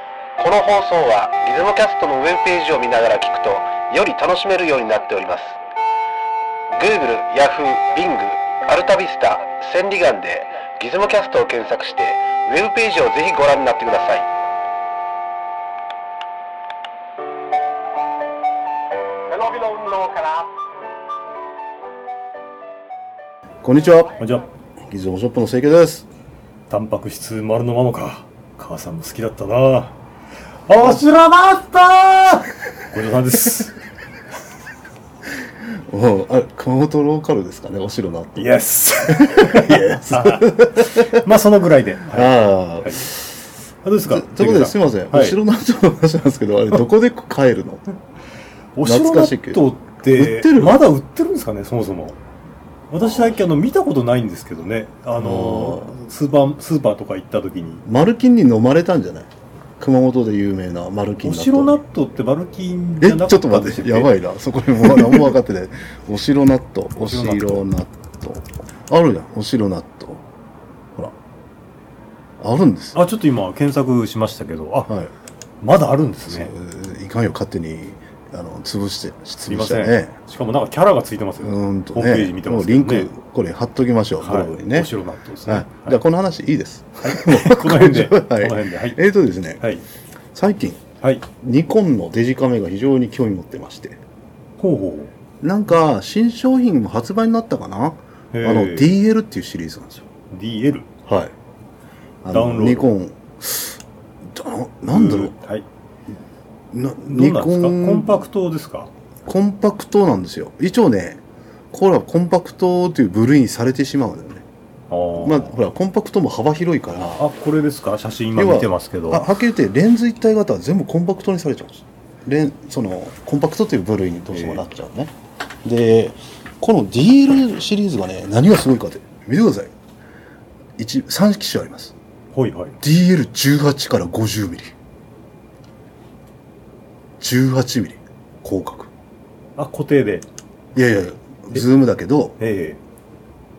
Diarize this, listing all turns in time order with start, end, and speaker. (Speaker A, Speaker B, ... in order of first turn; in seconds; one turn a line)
Speaker A: 0.4-5.6
Speaker A: 6.7-14.3
Speaker A: 19.3-20.5
Speaker B: 23.6-24.1
Speaker C: 24.2-24.4
Speaker B: 24.9-26.1
Speaker C: 26.7-29.9
Speaker C: 30.7-33.8
Speaker B: 35.7-41.3
Speaker C: 38.4-43.1
Speaker B: 42.1-43.4
Speaker C: 43.8-45.4
Speaker B: 44.0-47.8
Speaker C: 48.7-52.2
Speaker B: 48.8-50.9
Speaker C: 52.9-57.8
Speaker B: 55.1-55.9
Speaker B: 57.8-61.8
Speaker C: 61.2-64.2
Speaker B: 63.0-70.2
Speaker C: 67.0-67.6
Speaker B: 72.4-73.0
Speaker C: 72.9-74.9
Speaker C: 75.6-76.5
Speaker B: 76.3-80.1
Speaker C: 79.5-83.1
Speaker B: 81.4-84.9
Speaker C: 84.2-86.0
Speaker B: 85.4-89.6
Speaker C: 87.0-89.0
Speaker B: 90.3-94.0
Speaker C: 94.6-95.1
Speaker B: 95.4-100.0
Speaker C: 98.3-98.9
Speaker C: 100.3-100.9
Speaker B: 101.0-101.3
Speaker B: 102.2-105.3
Speaker C: 102.3-102.9
Speaker C: 104.9-105.7
Speaker B: 106.7-108.2
Speaker C: 107.0-108.9
Speaker B: 109.2-111.2
Speaker B: 111.7-114.4
Speaker C: 114.9-115.5
Speaker B: 115.2-117.3
Speaker C: 117.2-119.3
Speaker B: 118.3-129.7
Speaker C: 124.3-124.6
Speaker B: 130.8-131.9
Speaker C: 132.3-132.8
Speaker B: 132.8-134.7
Speaker B: 137.2-138.9
Speaker C: 139.6-140.2
Speaker B: 140.7-142.4
Speaker C: 142.4-142.8